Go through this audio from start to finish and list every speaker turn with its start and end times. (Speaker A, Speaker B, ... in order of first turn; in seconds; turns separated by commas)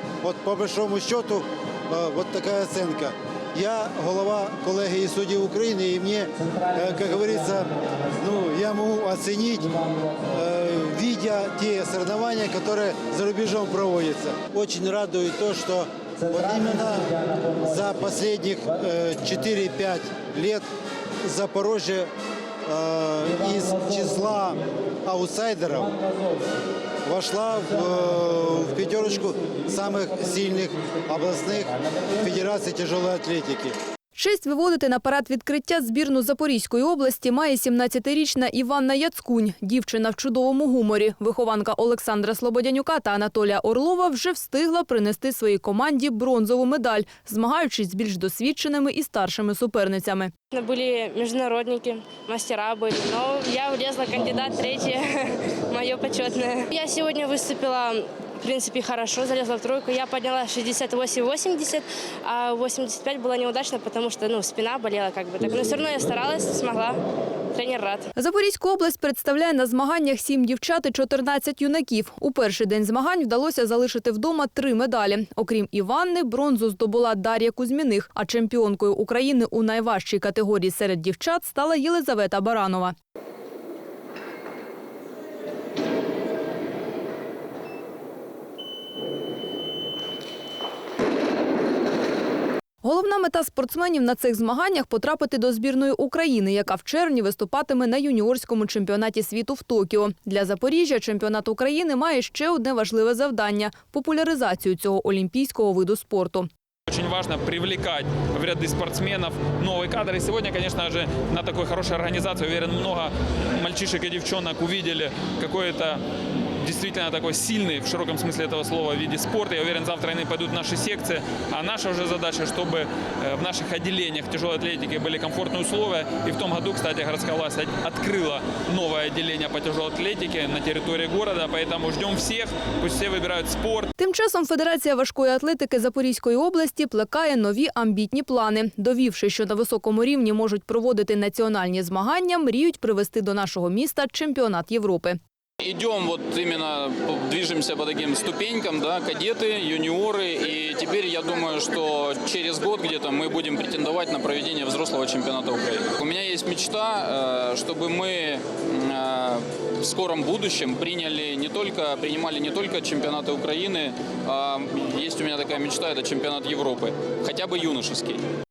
Speaker A: 0.2-20.7, Speaker A: 21.2-22.1, Speaker A: 22.7-25.9, Speaker A: 27.1-33.8, Speaker B: 34.1-50.3, Speaker C: 50.5-67.0, Speaker C: 67.5-68.1, Speaker B: 68.2-82.9, Speaker B: 92.8-106.5, Speaker D: 106.9-116.0, Speaker D: 116.6-133.9, Speaker B: 134.0-145.2, Speaker E: 145.6-168.2